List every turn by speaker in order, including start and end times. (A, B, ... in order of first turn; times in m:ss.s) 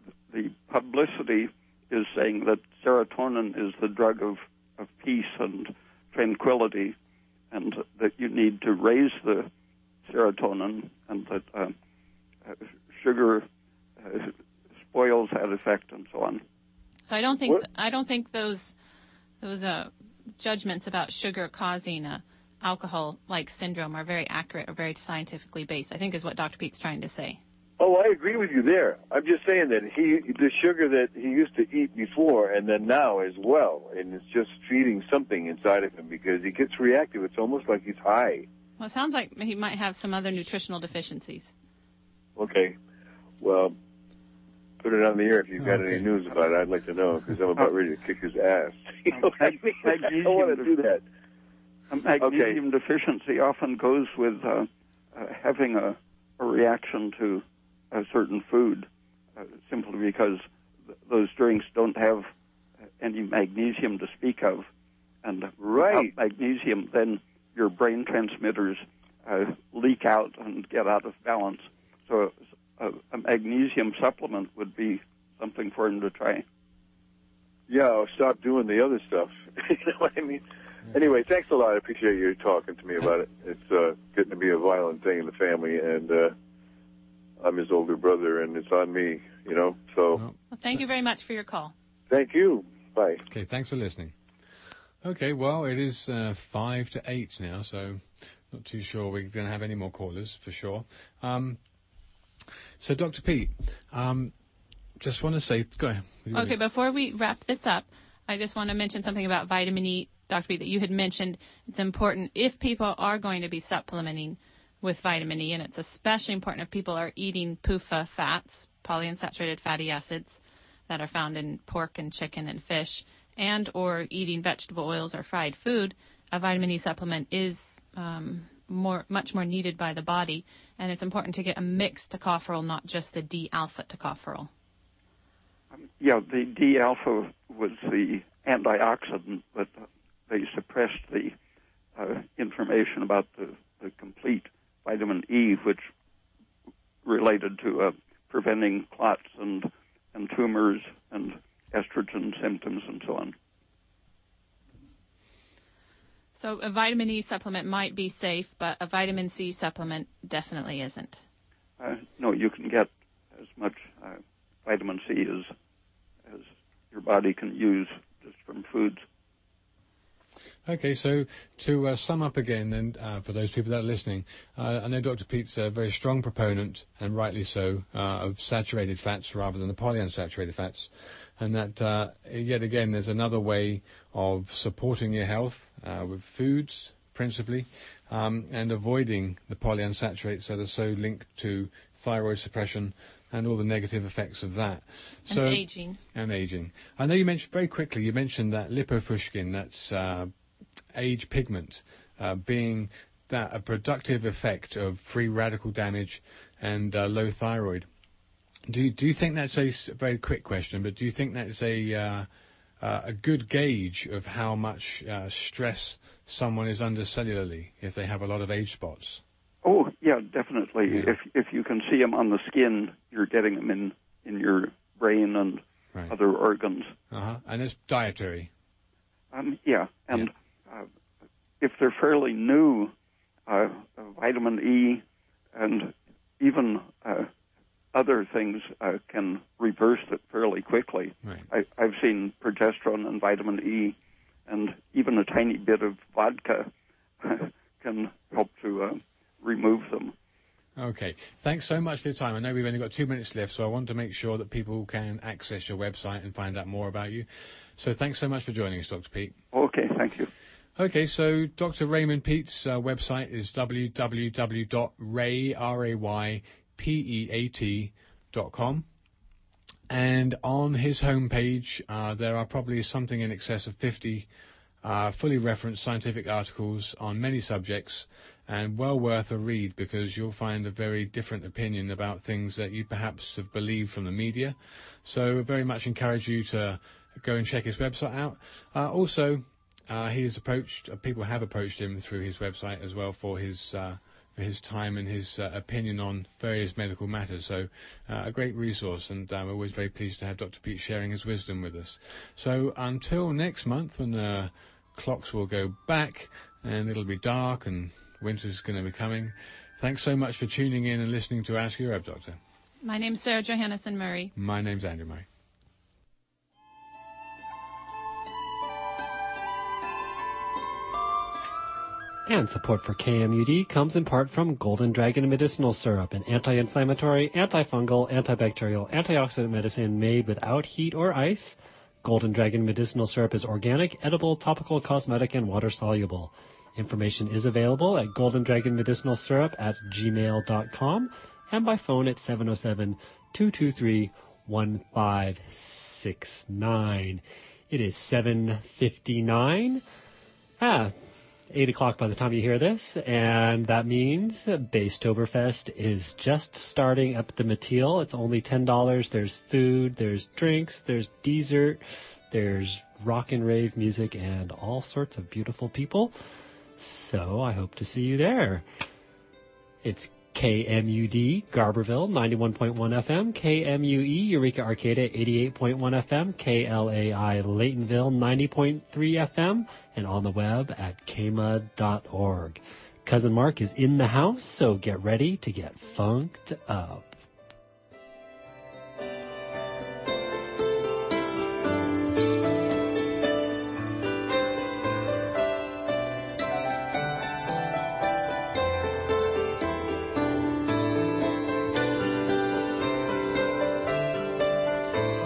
0:00.3-0:07.0 A
0:07.5-0:09.5 A
0:10.1-0:11.8 A
0:12.5-0:13.5 A
0:14.0-0:14.4 A
0:14.9-0:16.4 A
0:17.1-0:18.7 B
0:19.4-0:27.4 B
0:27.8-0:38.5 C
0:38.8-0:41.5 B
0:42.4-0:42.8 C
0:43.4-0:43.8 C
0:44.8-0:51.0 C
0:45.6-0:46.0 D
0:49.1-0:50.7 A
0:51.9-1:00.4 A
0:52.2-0:52.6 C
1:01.1-1:02.3 A
1:03.0-1:04.7 A
1:05.2-1:16.4 A
1:05.6-1:06.2 C
1:17.7-1:26.3 C
1:27.4-1:30.2 C
1:30.1-1:30.8 D
1:30.5-1:31.7 B
1:32.1-1:33.2 C
1:33.3-1:34.2 D
1:35.0-1:41.6 D
1:42.8-1:44.3 D
1:45.0-1:46.6 D
1:46.3-2:14.5 B
2:15.7-2:21.4 A
2:22.0-2:25.9 A
2:27.0-2:33.4 A
2:36.4-2:41.2 B
2:41.8-2:45.5 A
2:46.3-2:49.0 A
2:50.6-3:20.3 D
3:15.3-3:16.0 B
3:20.9-3:27.9 D
3:28.7-3:32.3 D
3:32.8-3:39.2 D
3:39.6-3:47.0 A
3:40.9-3:41.2 D
3:47.1-3:48.5 D
3:49.3-3:50.9 A
3:51.6-3:52.9 A
3:53.5-3:55.0 A
3:55.6-3:57.3 A
3:57.9-4:04.0 A
4:04.5-4:10.2 A
4:10.8-4:19.4 D
4:19.5-4:20.3 A
4:20.8-4:28.9 D
4:29.9-4:34.3 D
4:34.8-5:12.4 D
5:12.8-5:14.3 B
5:14.4-5:15.3 D
5:22.3-5:49.8 E
5:50.6-5:50.9 E
5:51.5-6:06.1 E
6:06.8-6:08.6 E
6:09.8-6:27.2 E